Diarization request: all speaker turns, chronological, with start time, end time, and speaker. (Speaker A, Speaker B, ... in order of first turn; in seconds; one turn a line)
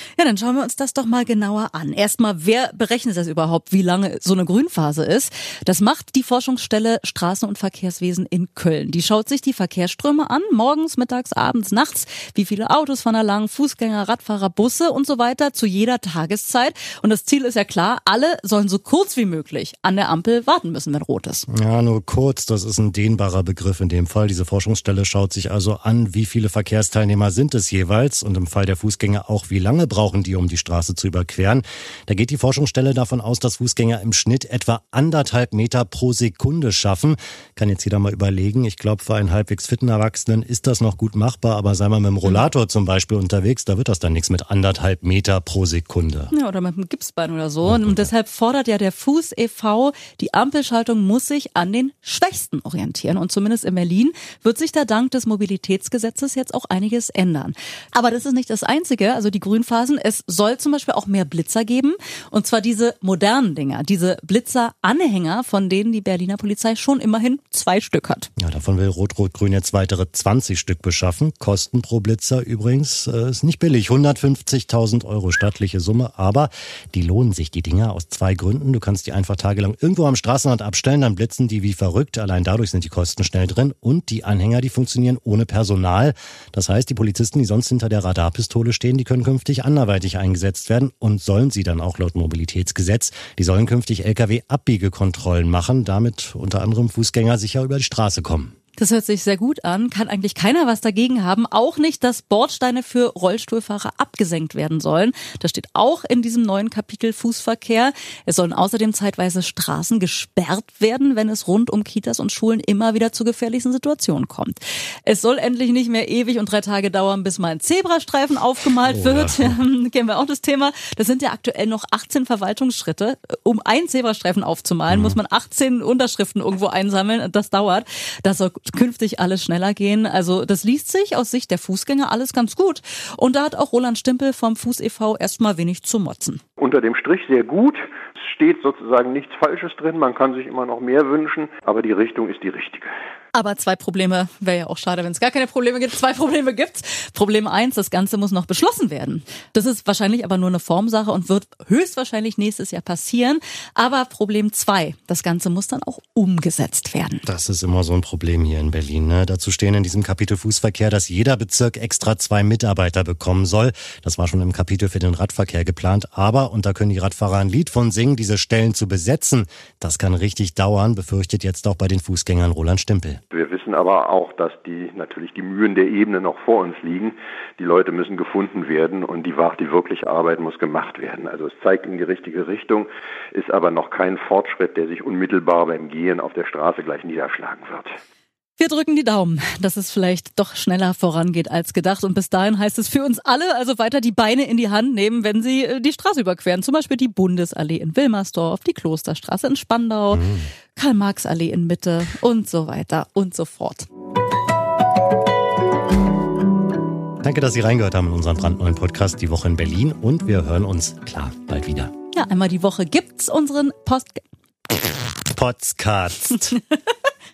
Speaker A: 0.2-21.4
Speaker B: 21.5-46.3
Speaker A: 46.3-68.3
Speaker B: 47.6-48.1
Speaker B: 68.4-98.5
Speaker A: 98.8-136.4
Speaker B: 118.9-119.6
Speaker B: 124.9-125.2
Speaker C: 136.6-142.9
Speaker A: 143.3-157.2
Speaker B: 157.2-173.2
Speaker C: 173.3-188.0
Speaker A: 188.6-200.2
Speaker B: 200.1-200.5
Speaker A: 200.8-203.9
Speaker B: 207.2-211.9
Speaker A: 212.1-214.2
Speaker B: 215.3-216.5
Speaker A: 216.4-216.9